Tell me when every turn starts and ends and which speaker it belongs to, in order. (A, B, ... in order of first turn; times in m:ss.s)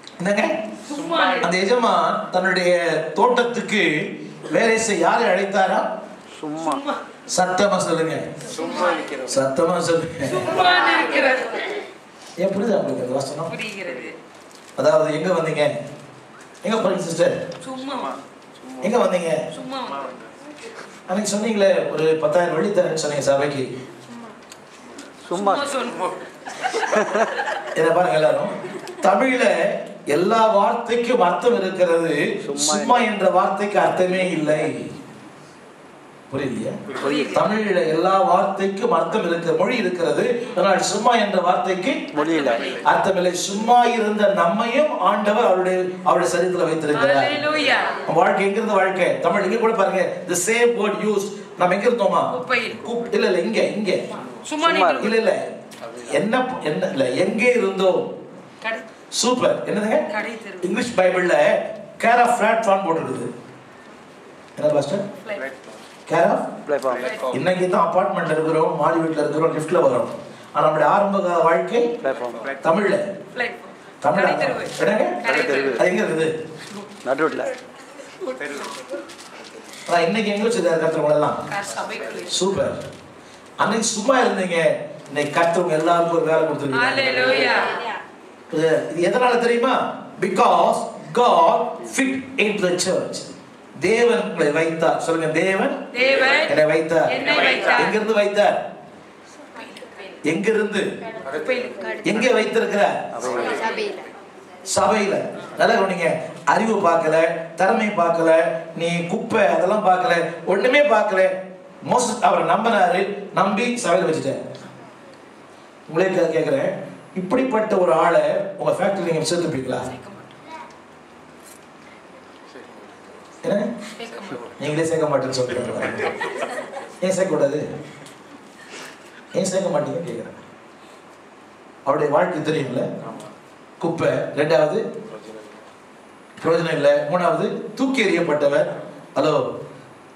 0:00.2-0:00.6 A
0:00.8-0:01.5 B
0:01.4-0:05.9 A
0:06.4-0:06.8 C
0:06.6-0:07.0 B
0:07.3-0:08.3 A
0:08.6-0:09.1 B
0:09.3-0:10.5 A
0:10.2-0:11.6 B
0:12.4-0:13.5 A
0:13.5-0:14.2 B
0:14.8-0:15.7 A
0:16.6-0:17.4 A
0:17.6-0:18.2 B
0:18.8-0:19.4 A
0:19.5-0:20.0 B
0:21.1-0:23.7 A
0:25.3-0:25.7 C
0:25.3-0:26.0 B
0:26.9-0:27.3 C
0:27.7-0:34.9 A
0:32.4-0:33.1 C
0:36.3-0:42.0 A
0:37.0-0:37.4 B
0:42.1-0:42.7 C
0:42.2-0:42.8 B
0:42.8-0:47.4 A
0:46.9-0:48.0 B
0:48.0-0:54.0 A
0:52.3-0:52.8 B
0:54.4-0:55.2 B
0:54.6-0:55.1 C
0:55.0-0:58.1 A
0:59.1-1:00.1 A
1:00.1-1:00.7 B
1:00.6-1:03.3 A
1:04.6-1:05.0 A
1:06.1-1:06.5 A
1:06.6-1:07.1 C
1:06.9-1:07.3 B
1:07.3-1:11.9 A
1:12.0-1:12.4 C
1:12.6-1:13.0 A
1:13.3-1:15.8 B
1:14.0-1:16.3 A
1:15.3-1:15.8 C
1:17.0-1:17.5 C
1:18.2-1:18.7 B
1:19.8-1:21.4 A
1:21.5-1:22.4 B
1:22.3-1:22.8 A
1:23.6-1:27.4 A
1:26.7-1:27.8 B
1:28.5-1:35.8 A
1:35.9-1:36.5 B
1:36.5-1:38.6 A
1:37.1-1:38.0 B
1:40.2-1:40.8 A
1:41.3-1:42.0 B
1:42.0-1:43.1 A
1:43.1-1:43.6 C
1:43.5-1:43.7 B
1:44.7-1:51.3 A
1:51.8-1:54.4 A
1:55.9-1:59.9 A
1:59.9-2:00.3 B
2:03.4-2:03.7 A
2:04.0-2:04.4 B
2:04.6-2:06.1 A
2:07.0-2:07.6 A
2:09.3-2:10.4 A
2:11.8-2:12.9 A
2:13.8-2:14.8 A
2:16.4-2:19.4 A